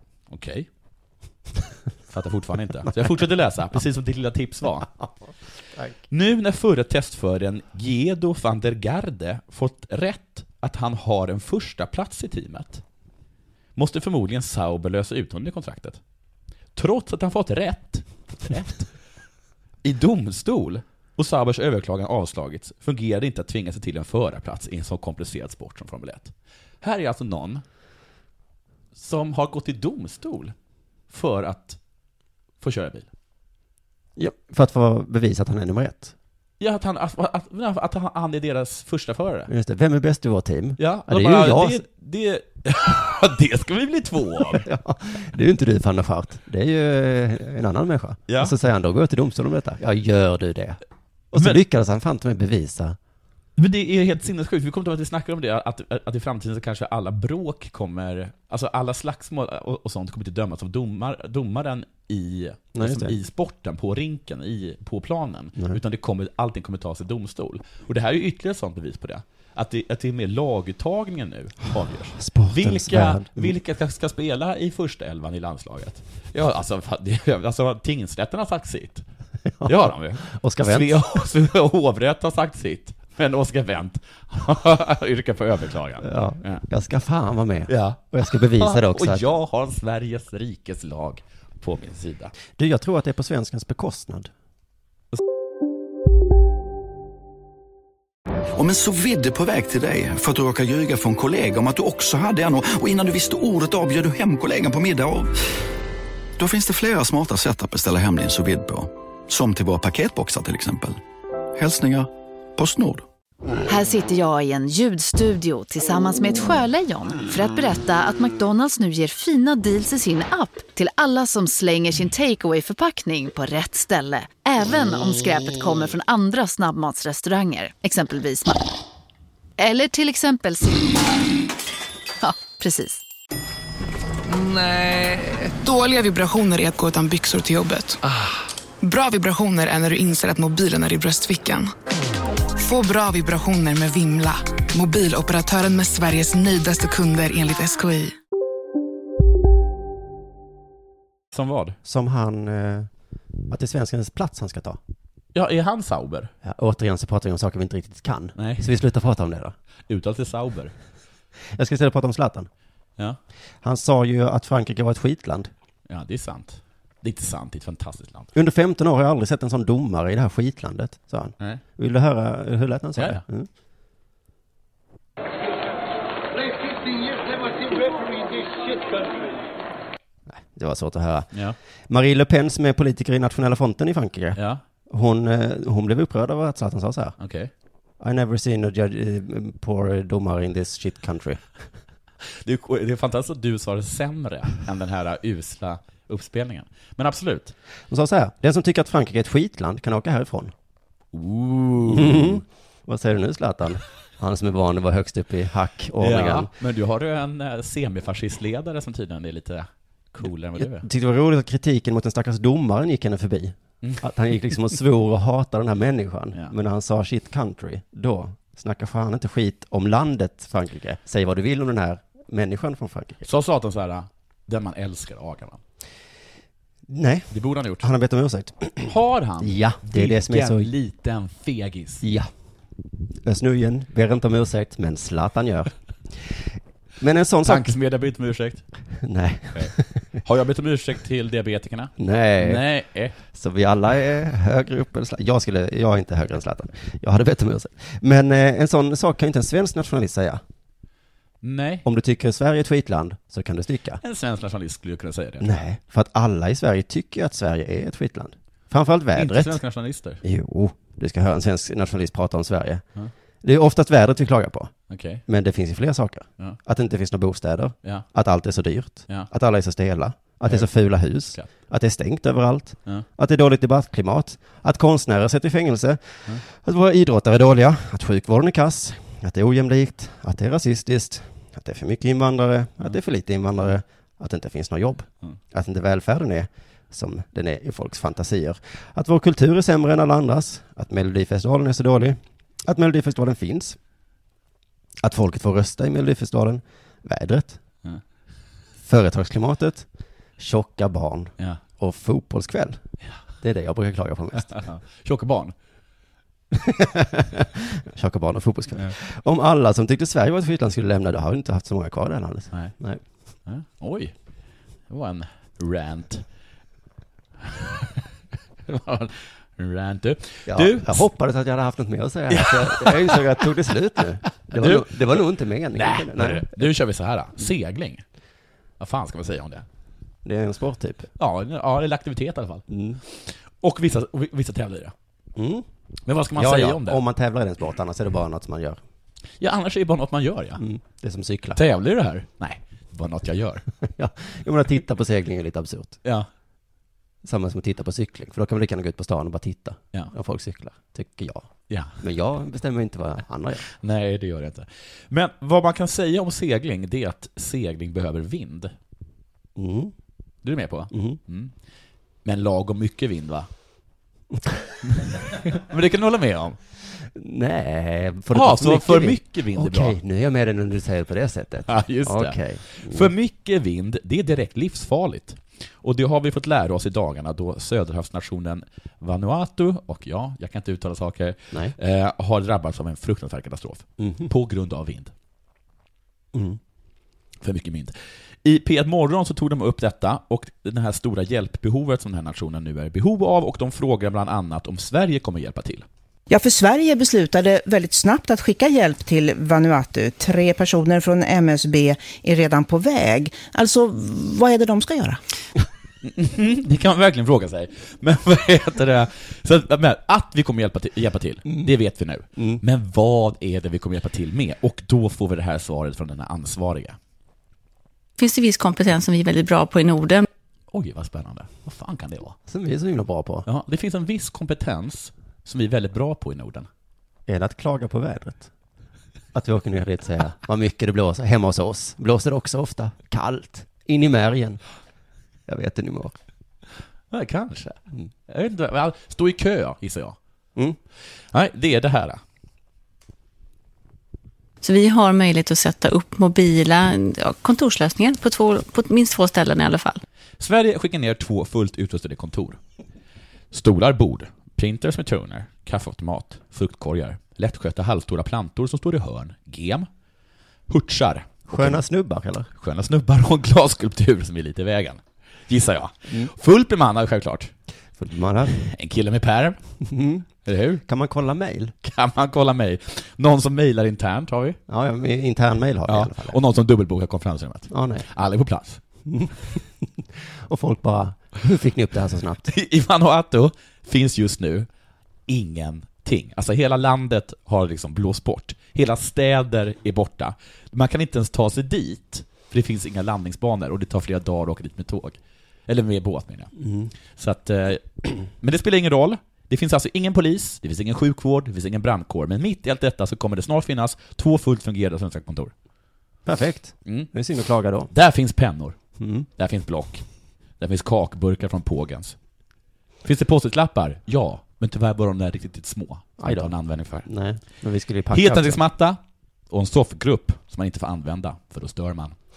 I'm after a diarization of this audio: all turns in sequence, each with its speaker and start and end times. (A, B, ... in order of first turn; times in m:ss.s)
0:00.3-0:00.7 A
0:02.1-0:04.9 A
0:06.1-0:12.8 A
0:13.8-0:16.0 A
0:16.8-0:18.9 A
0:19.8-0:27.6 A
0:29.0-0:30.5 A
0:31.1-0:31.8 A
0:32.6-0:33.1 A
0:34.2-0:36.1 B
0:36.6-0:39.5 A
0:39.5-0:41.8 B
0:40.8-0:44.7 A
0:44.5-0:50.8 B
0:48.3-0:48.5 A
0:51.3-0:53.0 B
0:53.6-1:19.0 A
1:02.8-1:03.2 B
1:12.2-1:13.6 B
1:19.6-1:21.0 B
1:19.6-1:26.6 A
1:26.0-1:29.2 B
1:27.7-1:32.3 A
1:32.6-1:34.3 B
1:38.6-1:45.3 C
1:46.4-1:51.0 C
1:51.6-1:53.0 C
1:53.7-2:08.6 D
2:09.6-2:11.0 D
2:12.2-2:13.0 D
2:14.3-2:18.1 E
2:18.8-2:21.7 E
2:22.6-2:28.2 E
2:31.3-2:31.8 A
2:31.8-2:32.9 B
2:33.5-2:34.8 B
2:35.3-2:36.3 A
2:36.4-2:39.6 B
2:38.4-2:38.7 A
2:39.9-2:40.7 A
2:41.5-2:42.5 B
2:43.6-2:45.5 B
2:45.9-2:48.3 A
2:48.3-2:53.5 B
2:53.0-2:53.2 A
3:00.3-3:01.3 B
3:01.3-3:01.6 A
3:01.9-3:04.4 B
3:04.4-3:04.6 A
3:04.9-3:07.2 B
3:07.2-3:07.5 A
3:08.0-3:11.4 B
3:12.4-3:17.5 A
3:17.9-3:20.5 B
3:21.1-3:22.4 A
3:21.9-3:26.5 B
3:26.0-3:30.9 A
3:30.6-3:43.2 B
3:43.2-3:45.6 A
3:46.9-3:50.7 B
3:47.3-3:47.9 A
3:48.8-3:52.0 A
3:52.0-3:52.3 B
3:53.2-3:56.4 B
3:57.0-3:57.7 B
3:57.4-3:58.6 A
3:59.0-4:00.0 B
3:59.5-4:03.2 A
4:02.0-4:02.6 B
4:03.3-4:10.4 B
4:11.4-4:11.8 A
4:11.8-4:14.0 B
4:14.0-4:15.6 A
4:15.4-4:19.6 B
4:19.2-4:20.2 A
4:20.2-4:22.8 B
4:23.4-4:24.7 B
4:24.9-4:25.2 A
4:25.3-4:53.8 B
4:30.5-4:30.7 A
4:55.0-4:57.6 B
4:58.8-4:59.9 B
5:00.4-5:02.8 B
5:03.4-5:04.6 B
5:04.5-5:05.5 A
5:06.5-5:13.0 B
5:13.5-5:14.1 A
5:14.9-5:16.2 A
5:17.4-5:18.0 A
5:18.7-5:21.1 A
5:20.5-5:26.7 B
5:22.3-5:23.4 A
5:24.5-5:25.2 A
5:25.7-5:28.0 A
5:28.8-5:29.6 A
5:30.2-5:31.1 B
5:31.2-5:34.9 A
5:32.7-5:33.0 B
5:35.4-5:35.7 B
5:36.1-5:37.0 A
5:36.4-5:38.8 B
5:39.4-5:40.6 A
5:40.6-5:41.6 B
5:41.6-5:43.6 A
5:43.8-5:46.0 B
5:47.2-5:53.6 B
5:51.7-5:52.0 A
5:53.7-5:58.7 A
5:59.6-5:59.9 B
6:00.4-6:01.5 A
6:00.9-6:01.2 B
6:02.2-6:03.5 A
6:05.0-6:06.6 A
6:07.1-6:13.1 B
6:08.3-6:10.0 A
6:11.7-6:25.1 A
6:24.0-6:24.3 B
6:26.3-6:26.6 B
6:27.4-6:35.9 A
6:36.3-6:45.2 F
6:46.0-6:57.0 A
6:52.4-6:52.6 B
6:58.2-7:00.2 G
7:00.7-7:02.4 A
7:02.5-7:03.5 B
7:03.5-7:06.7 A
7:07.3-7:08.5 B
7:09.3-7:14.6 B
7:15.5-7:16.2 B
7:17.1-7:20.2 A
7:21.3-7:22.2 A
7:24.6-7:30.0 G
7:30.4-7:32.6 A
7:33.5-7:39.9 A
7:40.7-7:41.8 A
7:41.5-7:42.5 B
7:42.6-7:47.5 A
7:48.0-7:48.6 B
7:48.5-7:49.6 A
7:49.8-7:50.3 B
7:50.4-7:50.8 A
7:50.8-7:51.8 B
7:51.8-7:54.6 A
7:54.7-7:56.4 B
7:55.9-7:58.8 A
7:57.7-7:58.1 B
7:59.1-8:02.5 B
8:02.5-8:04.7 A
8:05.3-8:16.5 A
8:16.6-8:16.9 B
8:17.1-8:25.5 A
8:26.3-8:27.9 B
8:26.9-8:27.1 A
8:27.9-8:28.8 A
8:29.0-8:29.3 B
8:29.4-8:30.0 A
8:30.6-8:32.2 A
8:33.0-8:37.1 A
8:36.2-8:38.6 B
8:38.1-8:42.2 A